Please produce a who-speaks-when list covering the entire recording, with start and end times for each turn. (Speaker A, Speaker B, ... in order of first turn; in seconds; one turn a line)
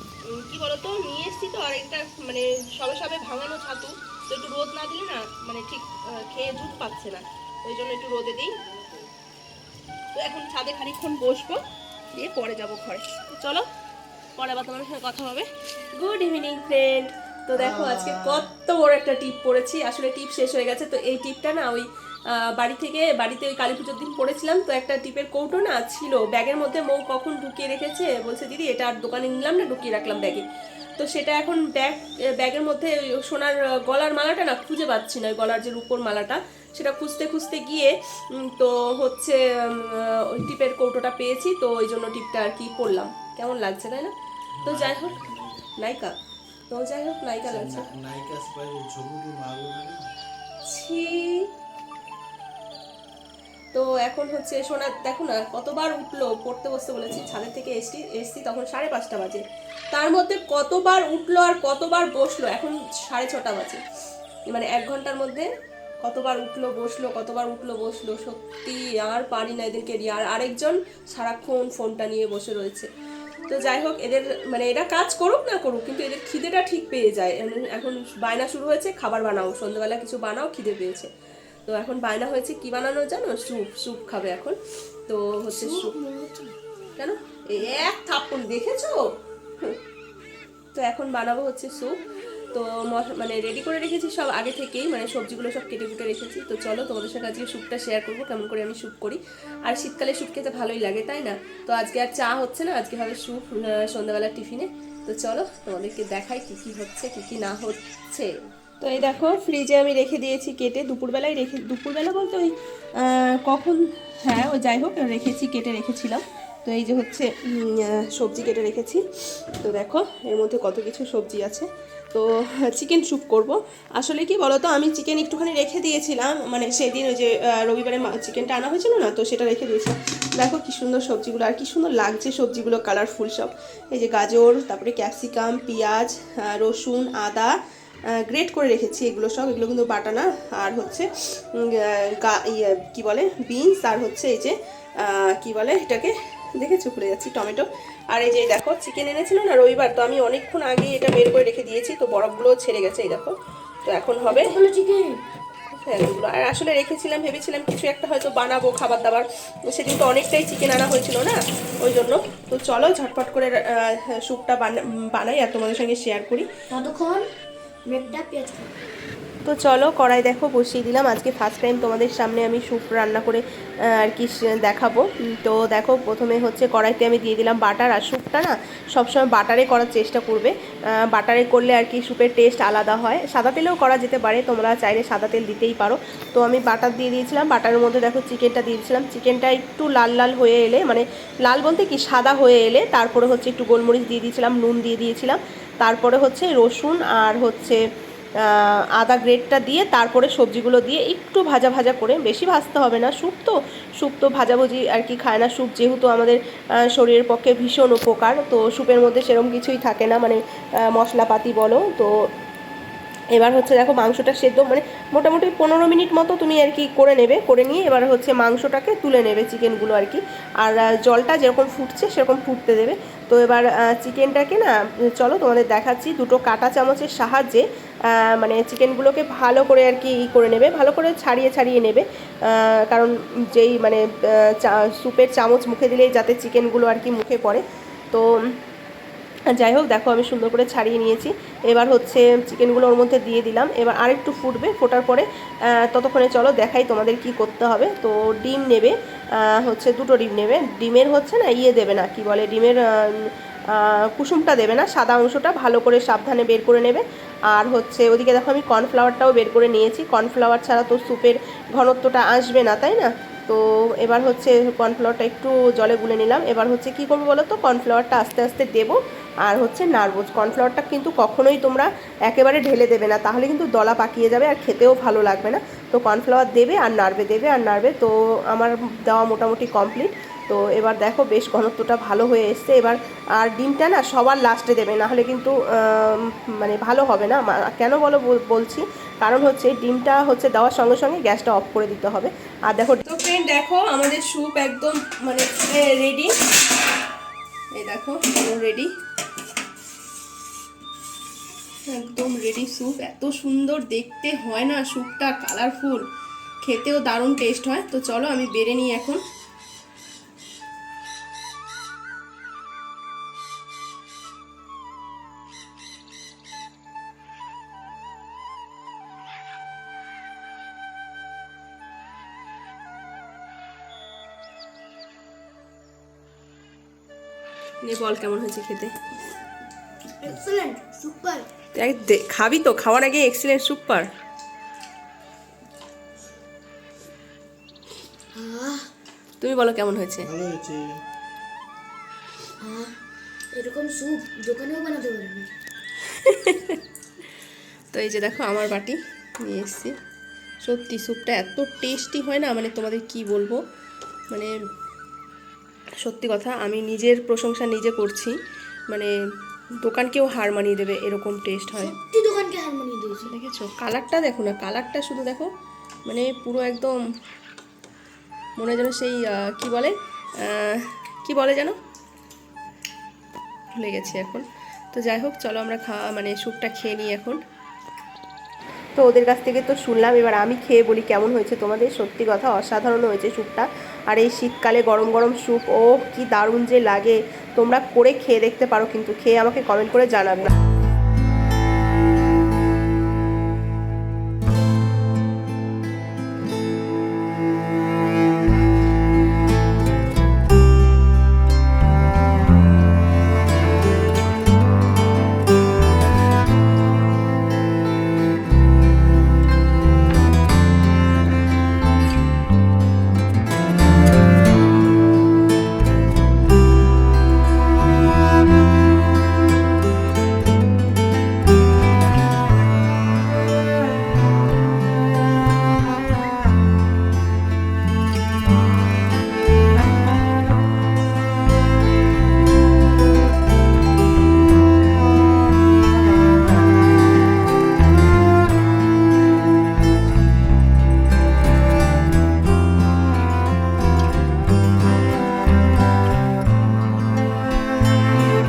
Speaker A: 0.2-8.6
Speaker A: 10.1-13.7
Speaker A: 14.4-30.4
Speaker B: 17.5-18.4
Speaker A: 31.0-44.1
Speaker B: 44.6-45.7
Speaker A: 44.6-45.1
Speaker A: 45.8-46.1
Speaker A: 46.7-47.9
Speaker B: 47.5-50.1
Speaker A: 50.6-51.5
Speaker A: 53.7-63.8
Speaker A: 64.5-65.5
Speaker A: 66.0-72.9
Speaker A: 73.5-81.1
Speaker A: 81.7-84.6
Speaker A: 85.1-85.9
Speaker C: 85.5-86.6
Speaker A: 87.0-89.0
Speaker A: 90.7-91.9
Speaker A: 92.5-137.6
Speaker A: 138.1-154.6
Speaker C: 154.3-155.2
Speaker A: 155.7-166.5
Speaker C: 166.7-167.2
Speaker C: 167.8-168.7
Speaker A: 169.4-197.8
Speaker A: 198.4-212.3
Speaker A: 213.3-238.5
Speaker A: 239.5-296.3
Speaker A: 297.7-298.9
Speaker A: 301.9-306.1
Speaker A: 306.6-309.2
Speaker A: 327.8-328.9
Speaker C: 330.2-331.5
Speaker A: 331.7-334.1
Speaker C: 338.3-338.9
Speaker A: 339.4-340.3
Speaker B: 340.2-341.0
Speaker C: 342.6-342.9
Speaker C: 343.5-345.5
Speaker A: 346.0-346.8
Speaker A: 347.9-349.9
Speaker A: 350.6-353.6
Speaker A: 356.0-358.3
Speaker A: 359.8-361.9
Speaker C: 361.7-363.4
Speaker A: 363.2-365.5
Speaker A: 366.1-367.0
Speaker A: 368.6-371.8
Speaker A: 373.7-377.4
Speaker A: 378.9-390.5